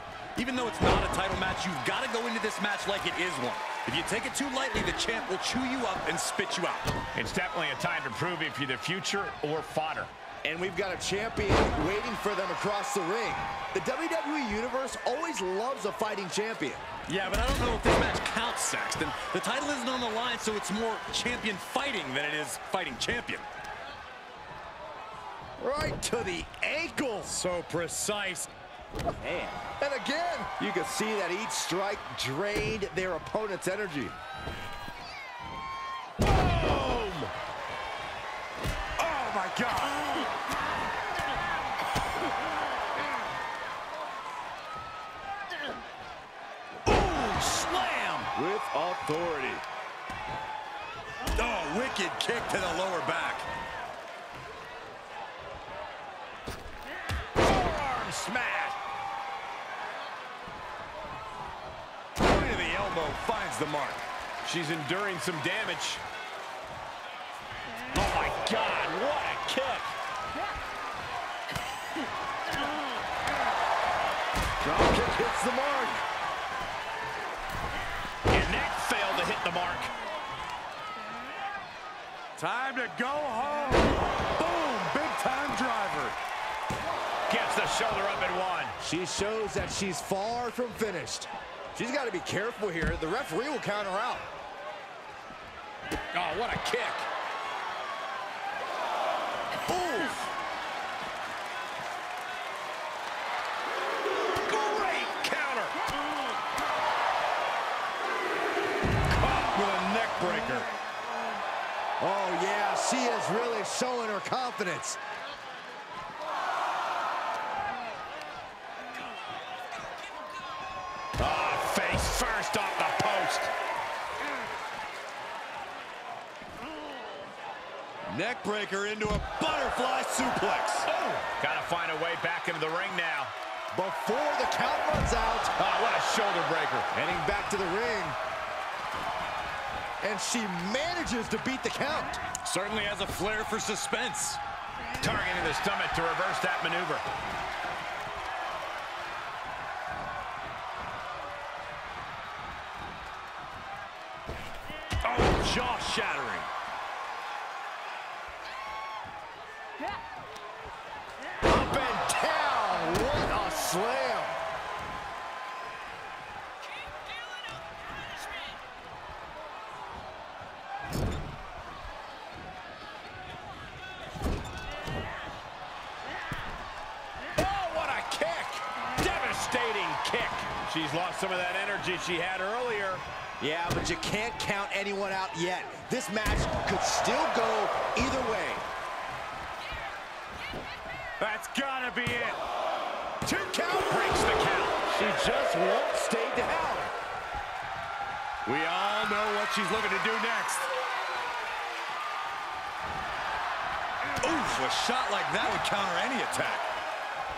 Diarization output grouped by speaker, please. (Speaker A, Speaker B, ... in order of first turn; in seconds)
Speaker A: 0.4-6.9, 17.1-23.5, 27.3-28.5, 29.2-29.6, 39.0-40.1, 46.9-49.6, 51.3-53.5, 62.2-64.0, 82.4-86.2, 109.2-110.7, 128.1-130.9, 142.4-144.4, 155.0-156.5, 191.2-192.4, 198.4-200.7, 204.2-206.7
Speaker B: 7.2-10.1, 36.2-37.3, 57.4-58.8, 64.4-66.0, 67.9-69.9, 78.3-79.9, 87.3-88.8, 96.1-97.1, 99.8-100.1, 104.4-105.8, 121.2-123.5, 130.9-133.3, 135.6-136.9, 145.0-147.1, 177.3-183.0, 193.9-194.9
Speaker C: 10.4-16.8, 25.6-27.4, 29.8-34.2, 74.6-76.0, 88.8-94.3, 112.0-115.0, 133.7-135.5, 136.9-138.2, 140.0-142.2, 161.4-164.4, 183.4-188.7, 193.2-194.1, 194.9-196.9